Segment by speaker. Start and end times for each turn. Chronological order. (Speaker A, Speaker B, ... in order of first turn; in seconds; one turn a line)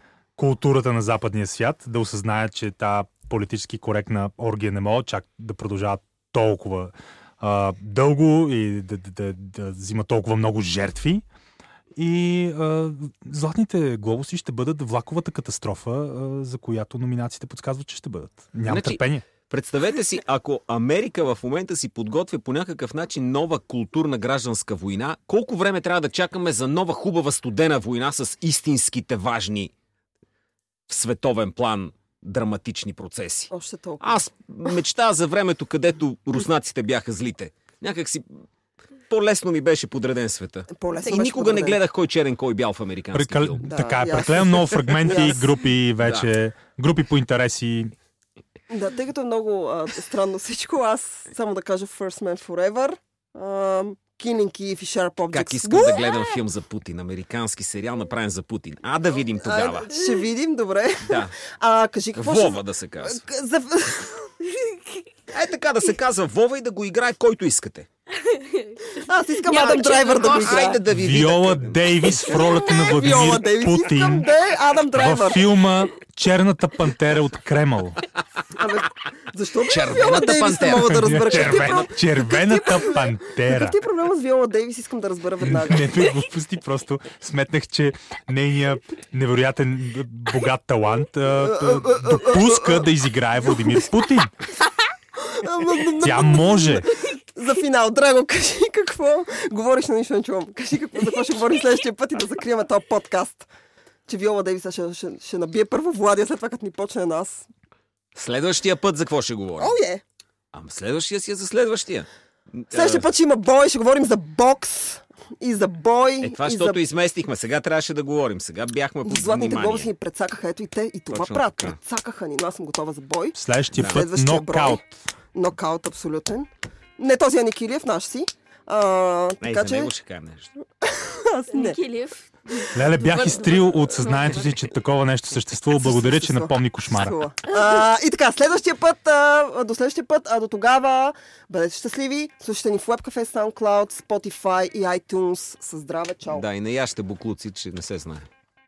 Speaker A: 0.4-11.2
Speaker A: 11.9-19.2
Speaker B: 18.7-29.7
Speaker B: 30.9-33.5
Speaker C: 33.5-34.2
Speaker B: 34.0-38.4
Speaker B: 39.1-43.7
Speaker C: 40.7-41.8
Speaker A: 43.1-47.9
Speaker C: 43.6-45.6
Speaker B: 46.0-46.3
Speaker C: 48.7-56.0
Speaker B: 55.3-59.9
Speaker D: 56.0-56.2
Speaker C: 59.4-64.4
Speaker B: 61.0-61.3
Speaker B: 62.1-63.2
Speaker B: 65.3-67.9
Speaker D: 68.2-70.8
Speaker C: 69.0-70.8
Speaker B: 70.2-72.6
Speaker A: 70.9-74.3
Speaker C: 72.3-75.4
Speaker A: 74.9-78.0
Speaker C: 78.5-86.1
Speaker B: 79.6-81.9
Speaker A: 80.7-83.8
Speaker A: 85.4-94.3
Speaker C: 91.3-92.9
Speaker C: 93.5-94.0
Speaker C: 95.2-103.5
Speaker A: 96.0-96.9
Speaker C: 104.1-107.4
Speaker B: 108.1-109.8
Speaker C: 109.6-110.0
Speaker B: 110.5-113.0
Speaker C: 112.7-116.8
Speaker B: 116.2-119.9
Speaker C: 119.0-124.8
Speaker B: 121.1-121.8
Speaker A: 123.3-124.8
Speaker B: 123.7-124.0
Speaker C: 125.3-129.9
Speaker B: 129.4-130.5
Speaker C: 130.8-131.8
Speaker D: 131.5-134.7
Speaker A: 132.7-137.2
Speaker C: 135.7-146.4
Speaker B: 146.3-148.3